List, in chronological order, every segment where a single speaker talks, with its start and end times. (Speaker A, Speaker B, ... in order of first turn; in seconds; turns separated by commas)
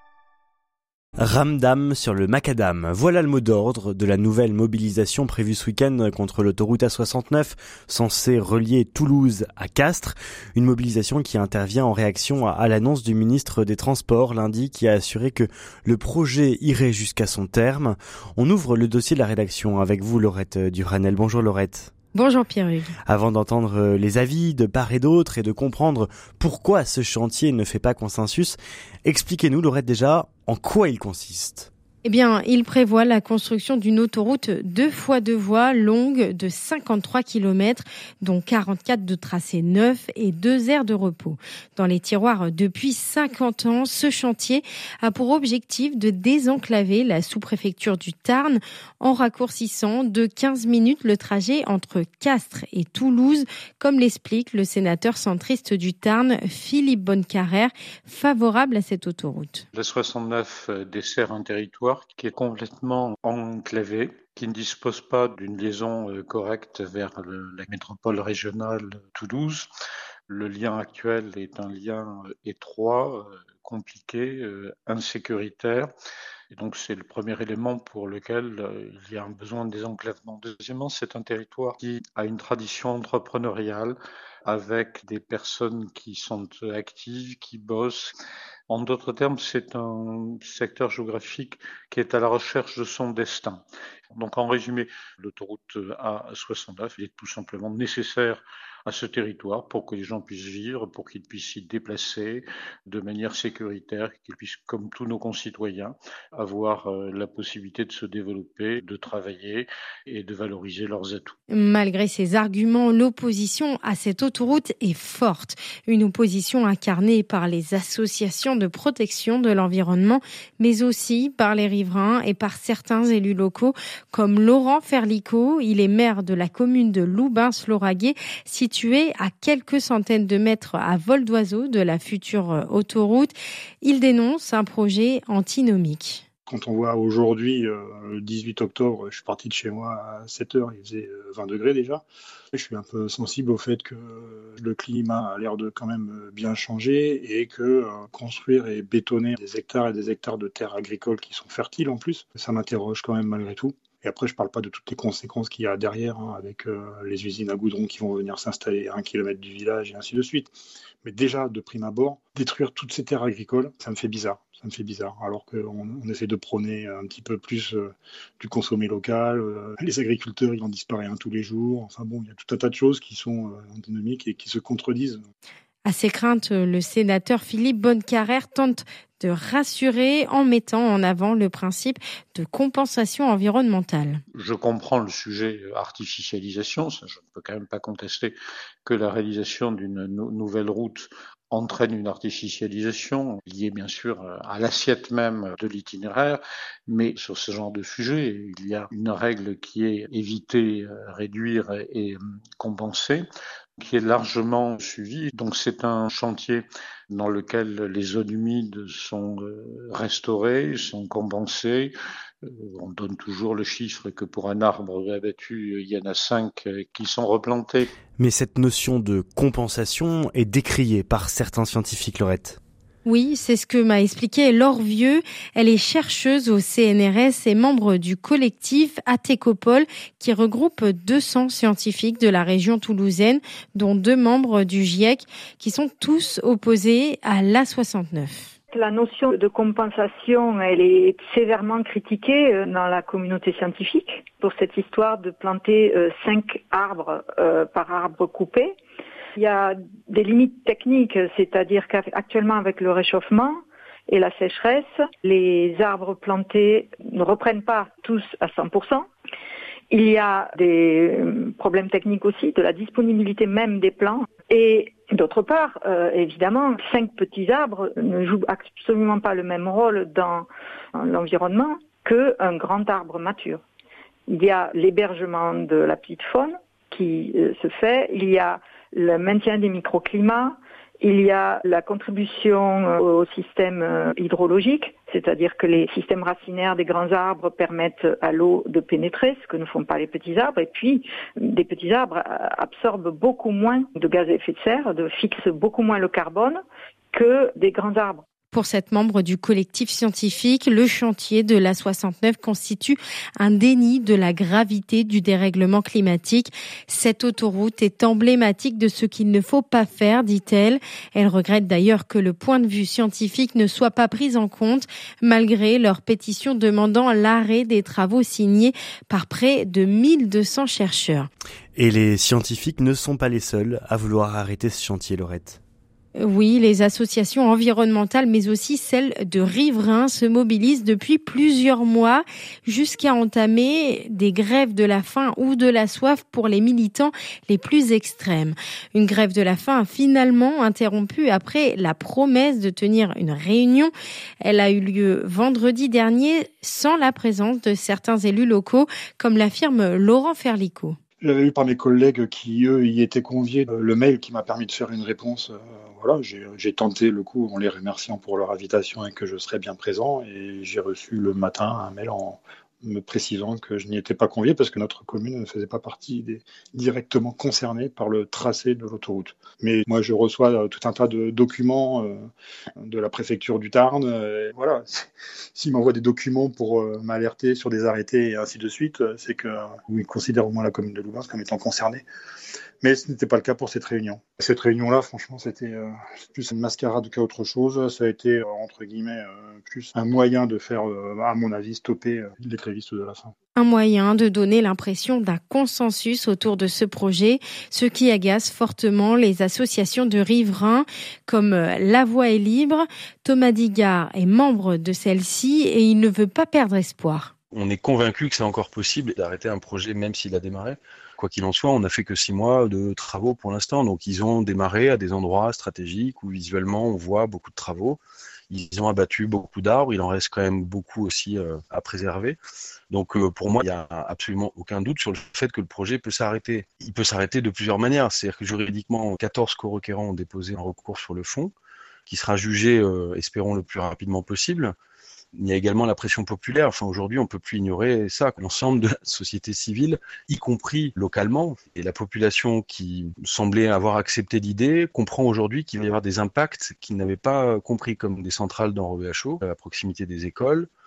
Speaker A: 1.2-21.9, Speaker B: 22.1-22.9, Speaker A: 23.0-31.7, Speaker B: 32.0-59.6, Speaker C: 59.7-69.7, Speaker C: 70.3-75.9, Speaker C: 76.5-88.1, Speaker C: 88.7-111.3, Speaker B: 111.5-136.2, Speaker D: 136.5-160.5, Speaker D: 161.0-175.2, Speaker B: 175.8-184.2, Speaker C: 184.3-203.2, Speaker C: 203.8-211.9, Speaker C: 212.4-217.9, Speaker A: 218.2-222.6, Speaker B: 223.0-238.5, Speaker E: 238.7-248.7, Speaker E: 249.3-259.0, Speaker E: 259.9-273.6, Speaker E: 274.3-298.2, Speaker B: 298.5-321.3, Speaker A: 321.8-325.6, Speaker B: 326.1-351.0, Speaker D: 351.2-372.3, Speaker D: 372.8-382.0, Speaker D: 382.8-393.3, Speaker B: 393.5-407.3, Speaker F: 407.5-422.4, Speaker F: 422.9-431.5, Speaker F: 432.1-434.7, Speaker F: 435.3-450.7